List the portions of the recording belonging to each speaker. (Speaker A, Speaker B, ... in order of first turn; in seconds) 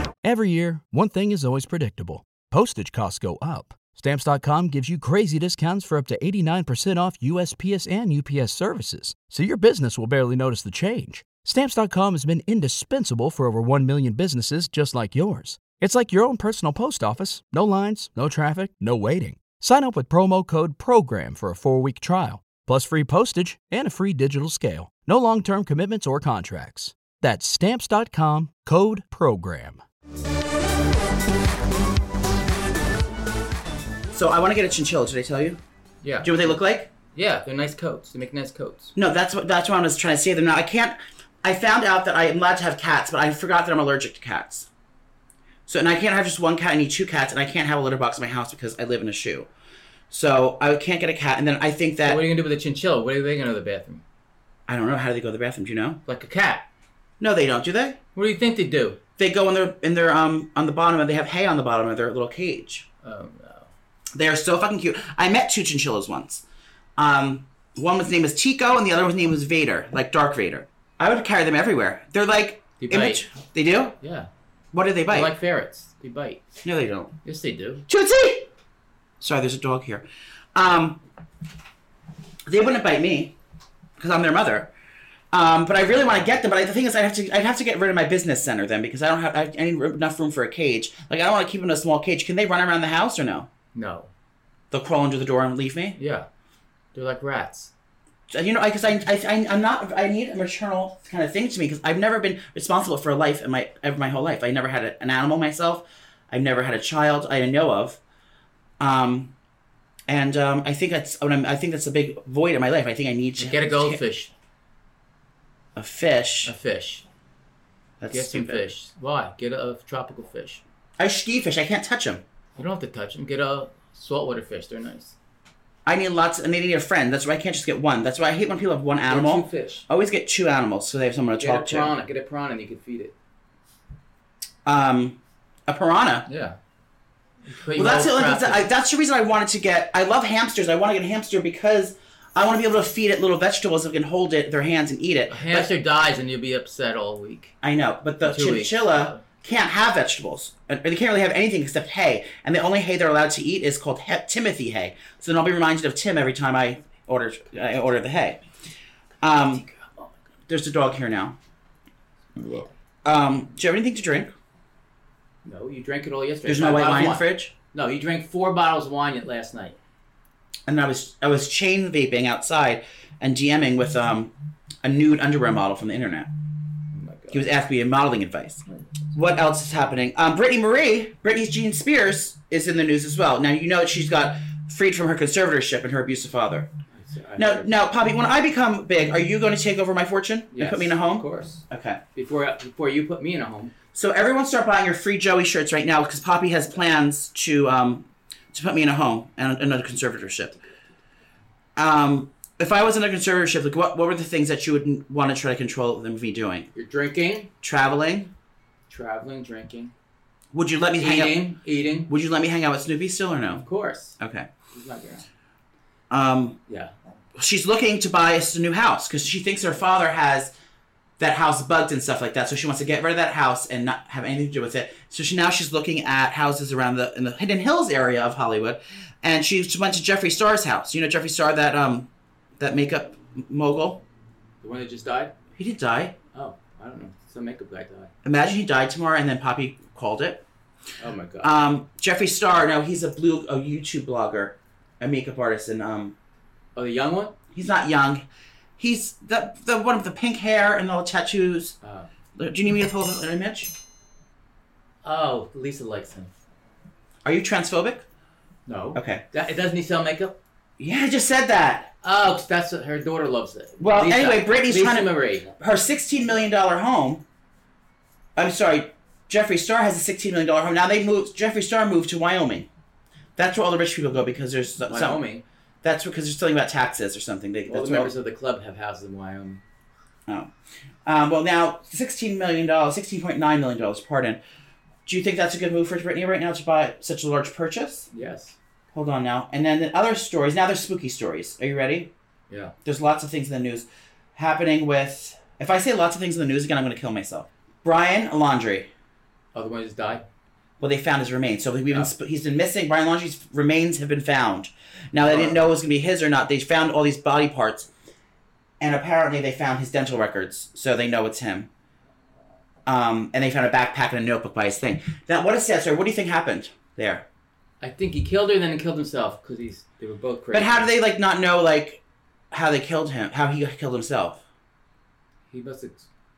Speaker A: 0.2-29.8
Speaker B: 34.1-35.6, 36.2-36.9, 38.9-44.7, 45.7-49.5, 50.1-52.2, 54.7-56.0, 57.2-58.0, 59.2-62.9, 64.1-66.4, 67.0-73.9, 74.7-75.3, 76.6-77.1, 77.9-78.5, 79.2-81.0, 82.5-83.3, 84.0-84.7, 85.3-93.5, 94.7-96.0, 98.3-108.0, 108.8-109.3, 110.1-114.0, 115.8-116.5, 118.0-118.7, 121.0-122.2, 125.8-131.9, 134.6-136.2, 137.8-145.7, 147.6-158.4, 159.2-159.6, 160.5-161.4, 163.0-164.3, 166.4-167.5, 170.7-174.3, 174.8-176.3, 177.3-186.7, 187.4-192.0, 193.9-200.6, 201.8-206.7, 207.6-208.3, 210.5-211.4, 212.1-213.7, 214.2-214.5, 216.1-216.6, 217.3-220.5, 221.2-234.0, 235.6-236.1, 238.2-240.4, 241.4-246.1, 247.5-248.2, 248.8-251.8, 252.4-253.7, 257.2-258.1, 258.9-259.2, 260.8-261.9, 263.8-267.2, 268.4-272.7, 273.4-275.2, 275.8-278.1, 281.1-284.4, 285.1-288.1, 288.9-292.1, 292.8-298.9, 300.8-307.9, 308.8-311.7, 312.9-317.2, 320.5-324.4
Speaker C: 36.0-38.9, 52.0-54.0, 56.0-56.6, 58.1-59.0, 63.0-63.7, 72.8-73.3, 74.0-74.3, 75.1-76.5, 77.2-77.8, 85.8-86.4, 93.7-94.1, 96.0-96.3, 96.9-97.7, 113.4-114.3, 116.4-117.0, 118.1-120.6, 122.5-125.1, 129.1-129.8, 131.4-133.1, 136.2-136.6, 137.4-138.7, 145.3-147.5, 148.2-149.2, 159.4-160.1, 162.3-162.7, 165.4-169.8, 176.9-177.5, 178.7-178.9, 186.9-187.7, 190.5-193.7, 206.7-207.5, 208.9-209.9, 211.0-212.1, 213.5-215.2, 216.7-216.9, 234.6-235.3, 236.3-238.1, 241.0-241.5, 246.7-247.3, 251.8-252.1, 255.0-256.3, 258.7-260.4, 262.0-265.5, 274.8-275.4, 277.7-279.6, 288.1-288.6, 292.5-292.7, 299.5-300.2, 305.2-305.6, 317.8-320.9, 325.5-326.1